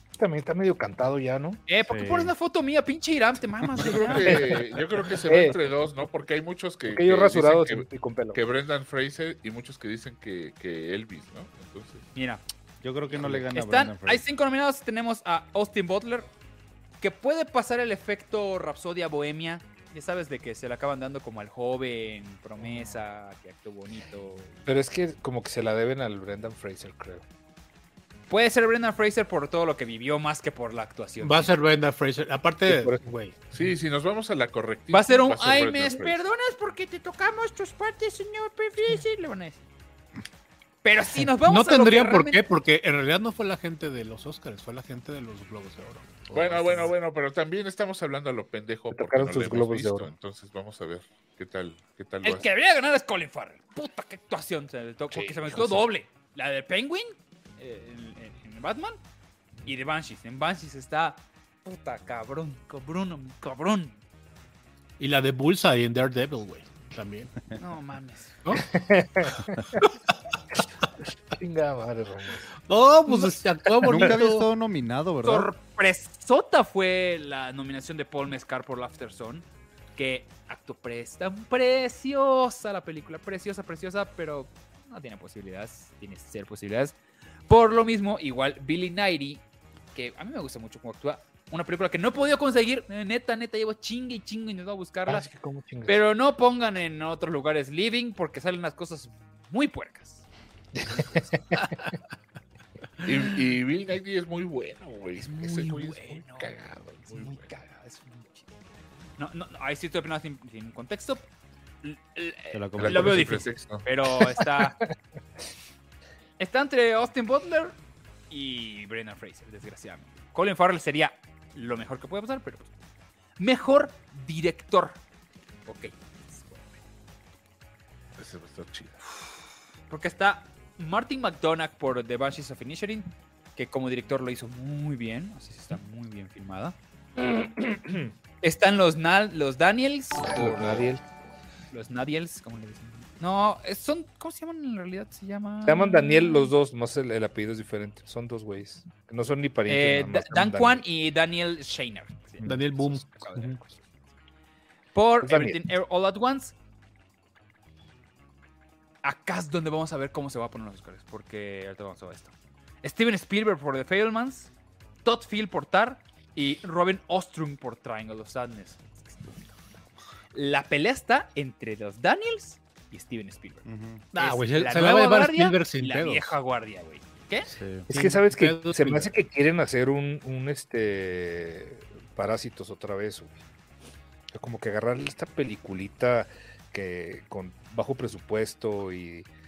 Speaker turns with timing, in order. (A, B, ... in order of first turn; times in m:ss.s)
0:00.2-0:01.6 A
0:01.7-0:04.5 B
0:01.9-0:02.3 C
0:03.8-0:12.1 D
0:04.1-0:05.6 A
0:06.9-0:08.4 A
0:12.1-0:12.4 B
0:12.8-0:14.2 C
0:13.2-0:16.3 B
0:17.0-0:24.7 B
0:22.6-0:23.0 A
0:24.7-0:27.2 A
0:28.3-0:31.5 B
0:31.2-0:33.4 E
0:32.7-0:33.0 A
0:33.5-0:36.2 D
0:34.9-0:39.6 B
0:40.8-0:42.4 B
0:41.4-0:46.9 E
0:46.3-0:52.5 D
0:48.9-0:50.1 A
0:52.2-0:59.0 B
0:55.1-0:55.8 A
0:59.6-1:04.0 B
1:05.0-1:07.3 E
1:07.6-1:08.4 B
1:08.6-1:09.8 A
1:11.3-1:12.5 A
1:12.7-1:14.5 E
1:13.8-1:15.5 C
1:15.2-1:19.4 B
1:20.0-1:26.9 B
1:27.5-1:29.4 B
1:29.9-1:35.3 B
1:35.1-1:36.0 A
1:35.9-1:40.2 B
1:40.8-1:41.6 A
1:40.9-1:41.8 B
1:43.0-1:47.5 D
1:45.2-1:46.5 B
1:47.0-1:48.5 B
1:49.2-1:51.2 B
1:51.8-1:54.8 B
1:52.5-1:53.4 C
1:52.8-1:53.8 D
1:54.4-1:54.7 A
1:56.4-1:57.8 B
1:58.3-2:02.7 B
2:03.4-2:05.0 B
2:05.6-2:06.8 B
2:08.2-2:09.0 D
2:09.9-2:16.8 B
2:17.2-2:18.1 A
2:18.4-2:20.9 B
2:20.2-2:21.0 A
2:21.7-2:26.5 B
2:25.6-2:30.8 A
2:29.7-2:33.8 B
2:32.4-2:33.6 E
2:34.9-2:36.5 B
2:35.2-2:35.6 A
2:39.0-2:44.5 B
2:45.0-2:49.5 B
2:50.3-2:57.5 B
2:53.6-2:54.0 C
2:54.1-2:56.3 E
2:57.4-2:57.9 C
2:57.9-3:03.4 A
2:57.9-2:59.1 E
3:04.3-3:09.3 A